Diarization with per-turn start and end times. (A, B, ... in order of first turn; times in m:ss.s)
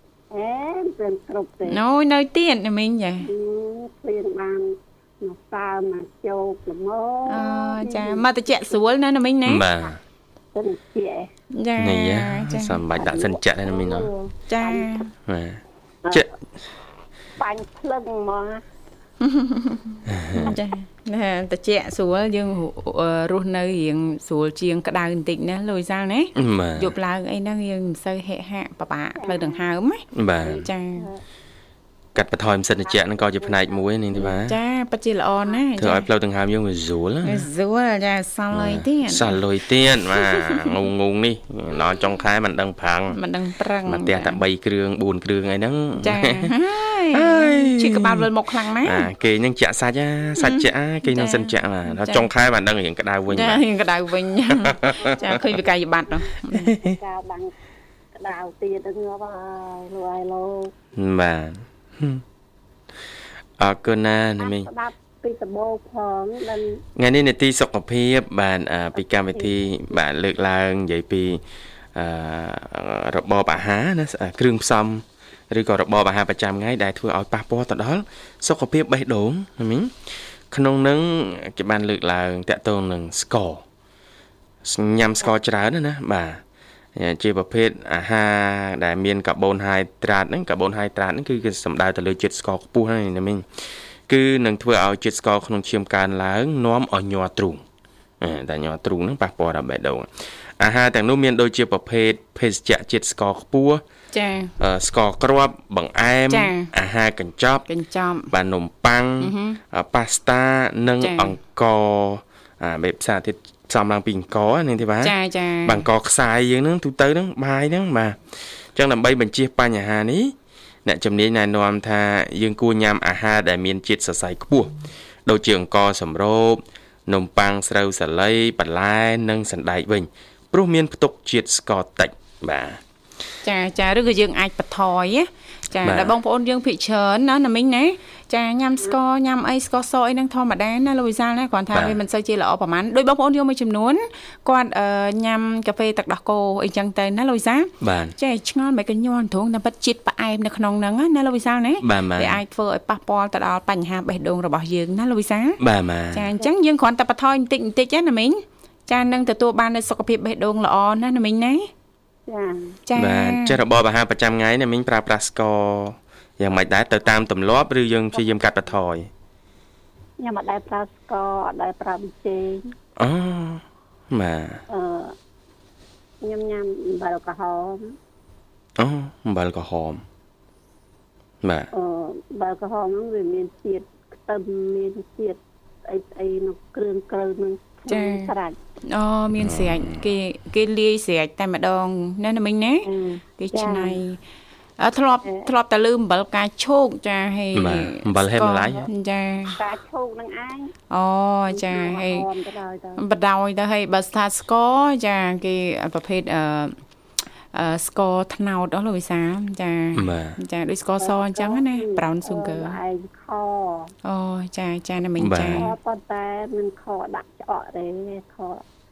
0:00.3-0:01.8 A
0:01.7-0:03.3 B
0:03.2-0:08.8 A
0:07.2-0:09.6 B
0:09.4-0:10.0 C
0:10.5-0:11.3 A
0:11.5-0:12.8 B
0:11.8-0:14.1 C
0:13.0-0:14.9 A
0:14.5-0:15.1 B
0:15.2-0:16.3 C
0:17.4-0:18.6 A
0:19.2-0:30.0 B
0:20.0-0:20.6 C
0:26.4-0:26.9 C
0:29.2-0:29.6 A
0:30.1-0:30.6 C
0:30.4-0:31.2 A
0:30.6-0:31.1 B
0:32.1-0:34.6 C
0:32.8-0:33.8 A
0:34.1-0:36.0 B
0:35.8-0:37.5 C
0:37.2-0:39.4 B
0:38.5-0:43.2 C
0:40.2-0:40.7 B
0:43.1-0:44.4 B
0:43.9-0:46.5 C
0:46.0-0:49.1 B
0:47.1-0:48.3 C
0:48.8-0:53.6 C
0:50.4-0:52.3 B
0:53.3-0:56.7 B
0:54.5-0:55.0 C
0:55.0-0:55.2 A
0:56.6-0:57.0 C
0:56.8-0:57.5 A
0:58.2-1:00.7 A
1:01.0-1:02.2 C
1:03.6-1:04.7 C
1:04.4-1:06.8 A
1:07.0-1:11.4 C
1:09.0-1:09.5 A
1:11.9-1:19.9 C
1:20.5-1:23.6 C
1:24.6-1:26.4 C
1:26.9-1:33.4 C
1:34.1-1:37.6 C
1:38.2-1:40.1 C
1:40.6-1:43.8 C
1:44.1-1:44.5 B
1:44.6-1:47.6 C
1:46.3-1:46.7 B
1:47.7-1:48.3 B
1:48.3-1:58.2 C
1:49.2-1:49.6 B
1:51.0-1:51.4 B
1:55.0-1:55.8 B
1:58.7-2:00.3 C
2:00.8-2:04.7 C
2:05.2-2:12.8 C
2:13.4-2:35.6 B
2:15.8-2:16.1 C
2:21.7-2:22.0 C
2:27.8-2:28.1 C
2:31.8-2:32.4 C
2:35.6-2:36.3 C
2:36.1-2:41.7 B
2:42.3-2:42.8 A
2:42.9-2:43.6 B
2:43.0-2:49.1 C
2:48.1-2:48.4 A
2:50.2-2:52.6 A
2:53.0-2:54.6 C
2:54.7-2:55.1 A
2:56.2-2:57.9 A
2:58.8-3:00.0 C
3:01.4-3:01.7 C
3:01.7-3:08.6 A
3:07.9-3:08.3 B
3:08.9-3:14.2 B
3:09.4-3:10.0 C
3:12.8-3:14.0 A
3:14.8-3:19.6 B
3:17.5-3:18.9 C
3:19.5-3:20.7 A
3:20.9-3:22.2 B
3:21.5-3:23.0 A
3:23.0-3:26.8 B
3:27.5-3:32.8 B
3:29.9-3:30.4 C
3:31.0-3:33.9 A
3:34.0-3:35.7 B
3:35.2-3:35.7 C
3:35.5-3:38.6 A